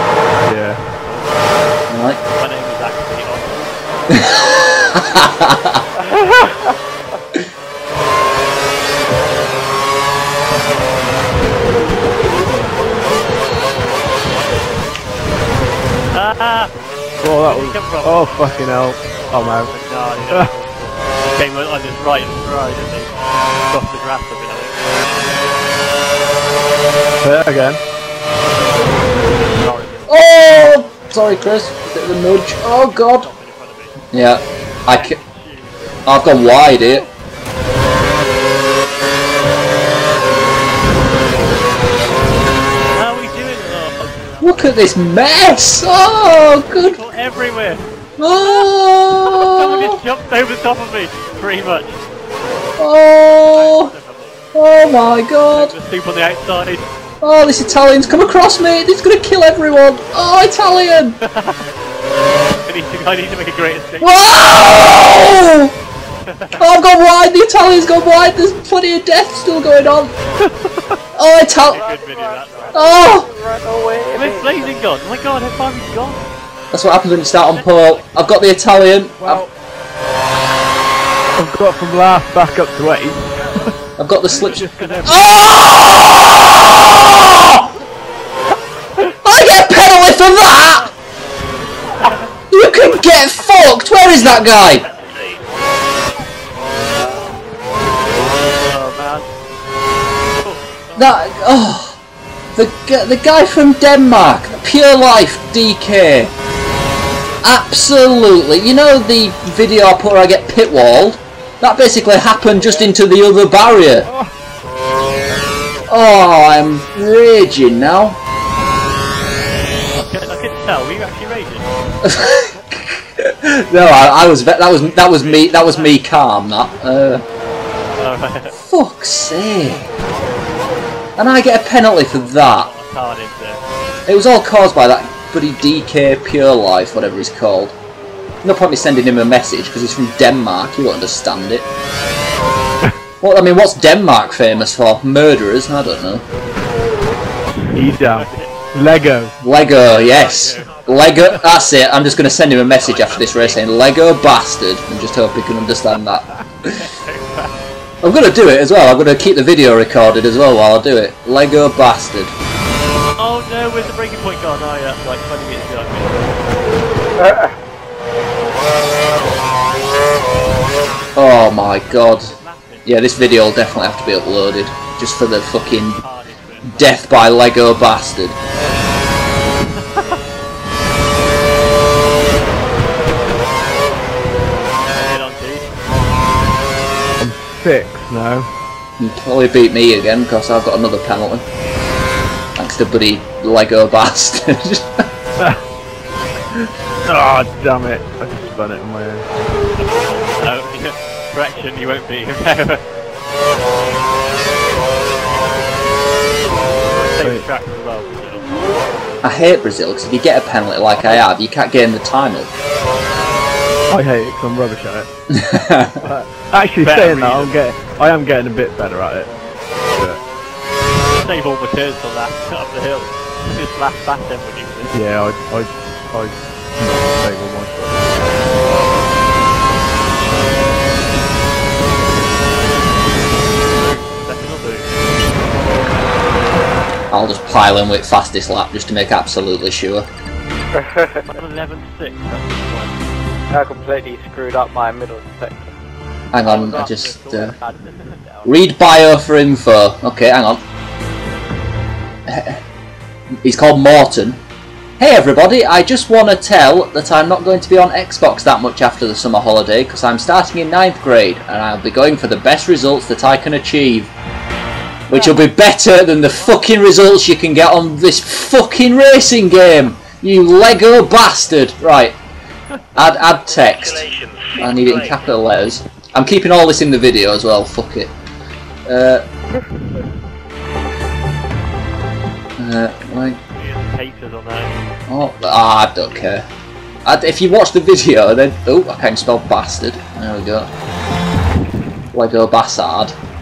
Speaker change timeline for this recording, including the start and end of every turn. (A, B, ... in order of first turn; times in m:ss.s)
0:00.4-0:00.8 A
0:01.0-0:01.8 B
0:01.9-0:02.2 C
0:02.4-0:03.8 B
0:04.2-0:05.8 C
0:06.0-0:06.8 D
0:12.4-0:12.8 A
0:16.1-0:16.8 B
0:17.2-0:20.5 A
0:17.4-0:25.6 B
0:27.2-0:27.8 A
0:28.6-0:30.8 B
0:30.1-0:33.3 C
0:32.7-0:37.1 B
0:34.1-0:35.2 C
0:36.0-0:37.0 C
0:42.9-0:44.8 B
0:44.4-0:47.0 C
0:46.6-0:48.7 B
0:48.2-0:50.0 C
0:49.2-0:52.0 B
0:52.8-0:53.9 C
0:53.5-0:54.4 B
0:54.6-0:55.7 C
0:55.5-0:56.8 B
0:57.2-1:01.2 C
1:01.2-1:01.7 B
1:02.6-1:04.5 B
1:04.0-1:05.7 C
1:06.2-1:06.6 B
1:06.6-1:10.1 C
1:11.2-1:11.8 C
1:11.7-1:12.8 B
1:11.7-1:14.7 D
1:12.7-1:13.3 C
1:14.1-1:16.3 B
1:16.7-1:19.4 C
1:17.4-1:18.4 B
1:19.2-1:19.5 A
1:21.4-1:23.8 A
1:24.0-1:27.7 C
1:24.3-1:25.3 B
1:24.4-1:25.2 A
1:29.2-1:30.9 C
1:32.0-1:32.3 B
1:32.5-1:34.8 C
1:38.5-1:39.3 B
1:40.4-1:41.1 B
1:41.0-1:42.0 C
1:42.6-1:46.3 C
1:47.4-1:54.1 C
1:54.0-1:54.3 A
1:55.9-1:58.2 C
1:59.9-2:01.7 B
2:02.0-2:07.2 C
2:05.0-2:06.0 B
2:08.0-2:08.6 B
2:08.7-2:09.9 C
2:11.2-2:12.7 C
2:12.1-2:13.6 B
2:14.1-2:17.8 C
2:18.4-2:21.6 C
2:23.2-2:26.2 C
2:27.7-2:28.7 B
2:27.7-2:29.3 A
2:29.4-2:36.8 C
2:29.8-2:30.7 B
2:32.8-2:33.6 B
2:36.7-2:37.6 B
2:38.0-2:42.3 C
2:43.2-2:46.6 B
2:47.2-2:47.5 D
2:51.2-2:52.3 C
2:51.6-2:53.6 B
2:52.9-2:56.0 C
2:56.0-2:57.3 B
2:56.7-2:58.4 C
2:59.6-3:00.2 B
3:04.9-3:05.8 B
3:07.2-3:08.5 A
3:09.0-3:11.4 C
3:12.6-3:15.0 C
3:15.4-3:15.6 A
3:17.0-3:19.3 A
3:19.8-3:22.8 B
3:26.8-3:29.2 B
3:27.2-3:27.5 A
3:29.2-3:32.5 C
3:33.9-3:35.1 A
3:35.3-3:36.0 C
3:36.0-3:39.3 A
3:36.8-3:37.6 B
3:39.9-3:40.2 A
3:41.2-3:45.1 B
3:44.9-3:48.5 A
3:53.6-3:55.0 B
3:57.1-4:00.1 C
4:00.7-4:01.2 D
4:01.3-4:03.0 B
4:03.5-4:05.7 D
4:06.3-4:07.6 C
4:06.4-4:08.2 B
4:06.8-4:08.5 D
4:08.4-4:10.6 C
4:12.3-4:12.6 C
4:13.4-4:14.4 C
4:15.0-4:24.1 C
4:25.1-4:32.2 C
4:25.1-4:25.4 B
4:33.0-4:38.1 C
4:38.9-4:39.2 C
4:42.6-4:43.4 C
4:43.2-4:45.0 B
4:45.1-4:46.4 C
4:47.1-4:50.7 C
4:52.1-4:53.1 C